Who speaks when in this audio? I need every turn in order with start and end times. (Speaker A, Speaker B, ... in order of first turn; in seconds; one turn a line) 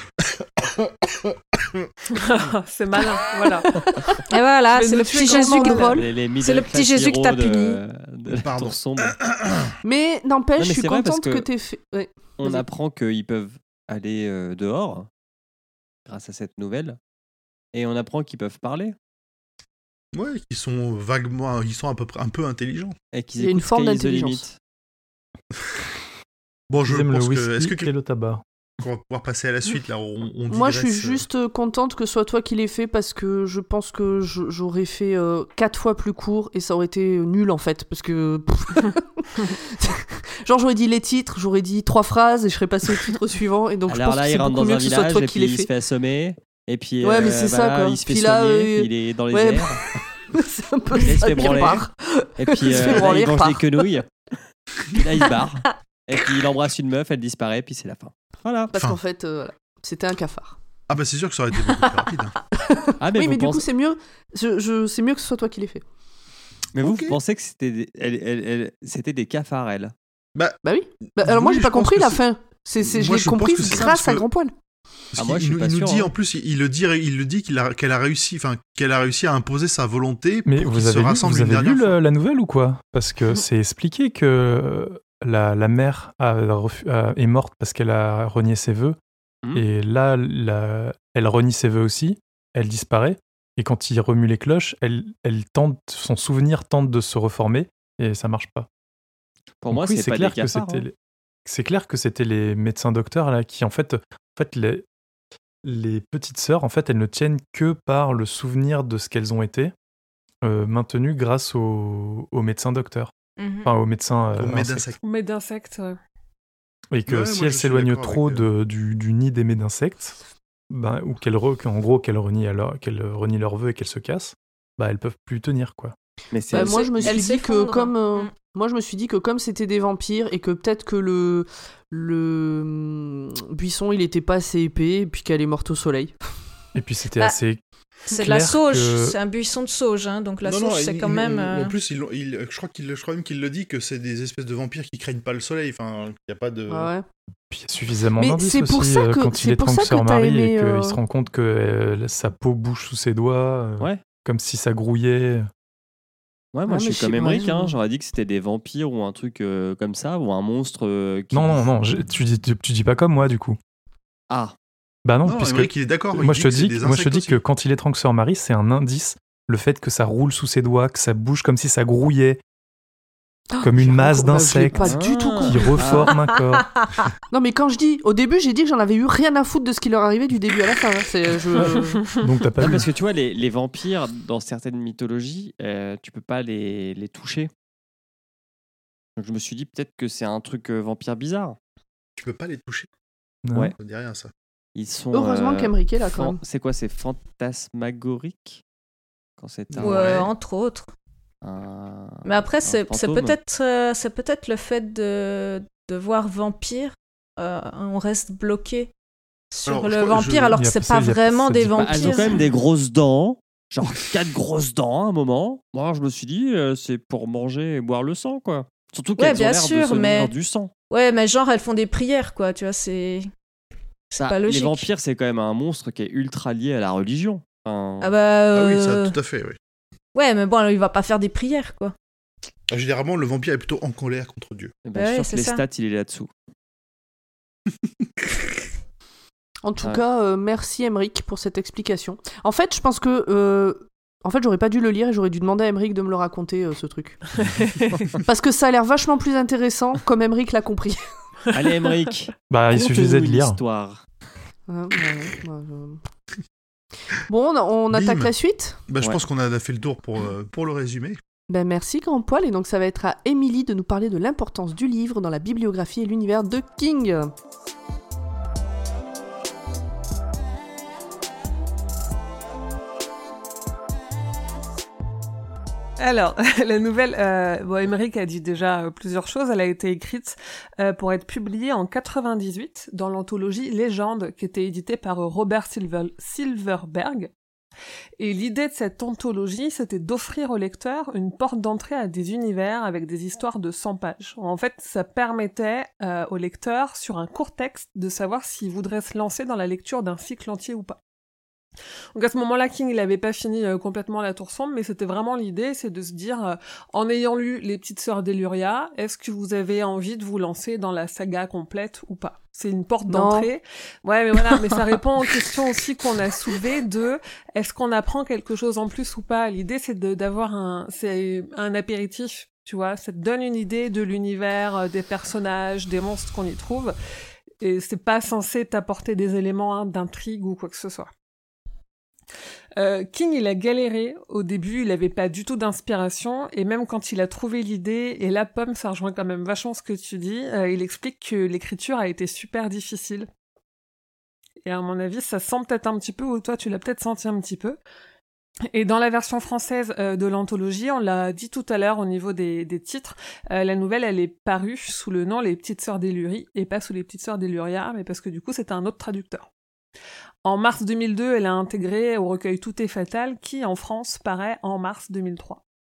Speaker A: 0.4-1.9
Speaker B: 2.1-3.8
Speaker C: 4.3-7.8
Speaker B: 4.7-6.0
Speaker D: 5.1-6.0
Speaker E: 5.9-9.2
Speaker A: 8.4-9.8
Speaker D: 9.8-12.7
Speaker E: 10.6-11.5
Speaker E: 12.4-15.1
Speaker E: 16.1-17.0
Speaker E: 17.7-19.0
Speaker A: 20.1-23.0
Speaker E: 23.1-24.6
Speaker D: 23.4-24.4
Speaker A: 26.7-27.9
Speaker F: 26.9-28.4
Speaker A: 28.8-31.3
Speaker D: 30.5-45.7
Speaker E: 43.9-49.8
Speaker D: 47.0-53.9
Speaker E: 51.0-51.9
Speaker E: 52.4-54.1
Speaker E: 54.9-58.7
Speaker D: 58.7-60.6
Speaker A: 60.9-62.4
Speaker D: 62.5-65.8
Speaker E: 63.0-63.7
Speaker E: 66.7-69.9
Speaker A: 66.8-67.2
Speaker D: 70.6-74.5
Speaker A: 71.2-72.2
Speaker A: 72.8-74.3
Speaker A: 75.1-82.0
Speaker E: 75.2-76.1
Speaker F: 80.5-89.0
Speaker F: 89.5-98.7
Speaker E: 99.6-100.8
Speaker F: 99.7-100.9
Speaker F: 101.5-104.9
Speaker F: 105.6-109.7
Speaker F: 110.4-113.1
Speaker C: 113.4-113.7
Speaker F: 113.6-114.9
Speaker A: 114.4-115.0
Speaker B: 115.0-116.0
Speaker F: 116.9-120.2
Speaker A: 117.1-118.5
Speaker F: 120.7-126.0
Speaker E: 126.3-127.2
Speaker D: 126.5-136.1
Speaker C: 126.5-128.3
Speaker F: 136.8-139.2
Speaker C: 138.1-141.7
Speaker A: 140.4-146.9
Speaker D: 146.7-147.1
Speaker F: 147.5-155.5
Speaker D: 148.2-151.0
Speaker E: 156.5-161.7
Speaker D: 156.7-157.8
Speaker F: 161.3-163.6
Speaker E: 164.3-164.6
Speaker F: 165.1-172.4
Speaker A: 165.2-167.4
Speaker D: 173.5-176.2
Speaker F: 173.6-176.7
Speaker E: 174.7-176.2
Speaker D: 177.3-182.1
Speaker F: 182.1-182.9
Speaker E: 182.6-187.5
Speaker E: 189.2-191.6
Speaker A: 192.2-192.9
Speaker F: 193.4-193.7
Speaker A: 193.8-194.3
Speaker E: 194.8-198.6
Speaker D: 195.1-196.4
Speaker E: 199.4-200.2
Speaker A: 199.7-200.3
Speaker C: 199.8-200.9
Speaker E: 201.4-203.4
Speaker C: 202.2-208.9
Speaker C: 209.5-212.4
Speaker A: 209.7-210.6
Speaker F: 210.6-212.4
Speaker E: 211.8-220.7
Speaker C: 219.2-220.3
Speaker C: 220.9-223.3
Speaker C: 224.1-224.9
Speaker E: 224.2-228.1
Speaker C: 228.0-229.2
Speaker A: 228.5-229.6
Speaker C: 230.2-231.9
Speaker A: 232.7-234.7
Speaker E: 234.8-236.3
Speaker C: 235.0-235.6
Speaker D: 239.6-247.2
Speaker B: 247.4-248.1
Speaker D: 248.2-251.0
Speaker E: 251.5-254.0
Speaker F: 252.5-253.6
Speaker D: 254.7-256.0
Speaker D: 257.3-258.8
Speaker A: 257.9-258.3
Speaker A: 258.9-261.2
Speaker D: 261.5-267.3
Speaker B: 276.0-287.3
Speaker B: 288.2-301.0
Speaker B: 302.1-326.9
Speaker D: 313.1-313.5
Speaker B: 327.6-331.1
Speaker B: 332.8-343.3
Speaker B: 344.6-347.8
Speaker B: 348.7-359.5
Speaker B: 360.4-365.6